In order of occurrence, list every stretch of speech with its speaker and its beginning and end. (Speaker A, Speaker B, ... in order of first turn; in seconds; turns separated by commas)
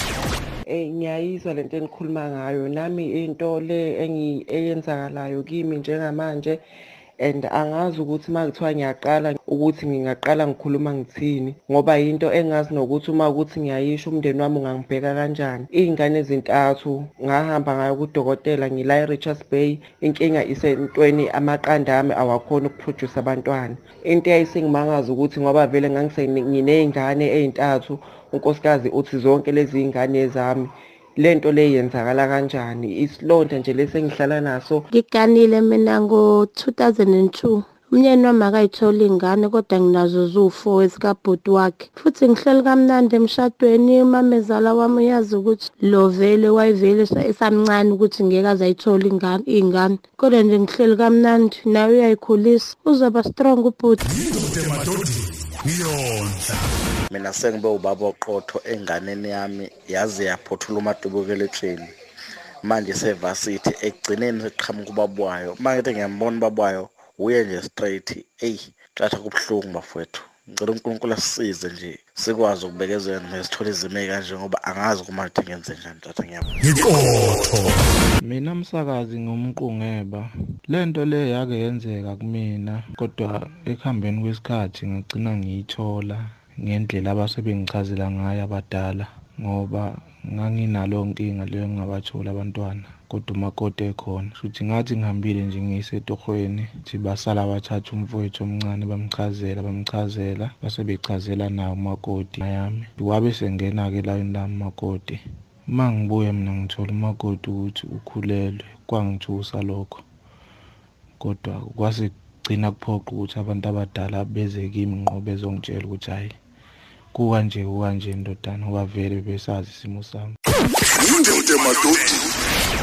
Speaker A: 0.7-6.6, Speaker A: 7.2-34.9, Speaker B: 34.9-54.0, Speaker C: 54.1-56.7, Speaker D: 57.1-61.9, Speaker D: 62.6-76.5, Speaker C: 76.6-77.8, Speaker E: 78.2-105.2, Speaker E: 105.7-110.0, Speaker E: 111.2-116.3, Speaker E: 117.1-120.3, Speaker C: 120.9-122.3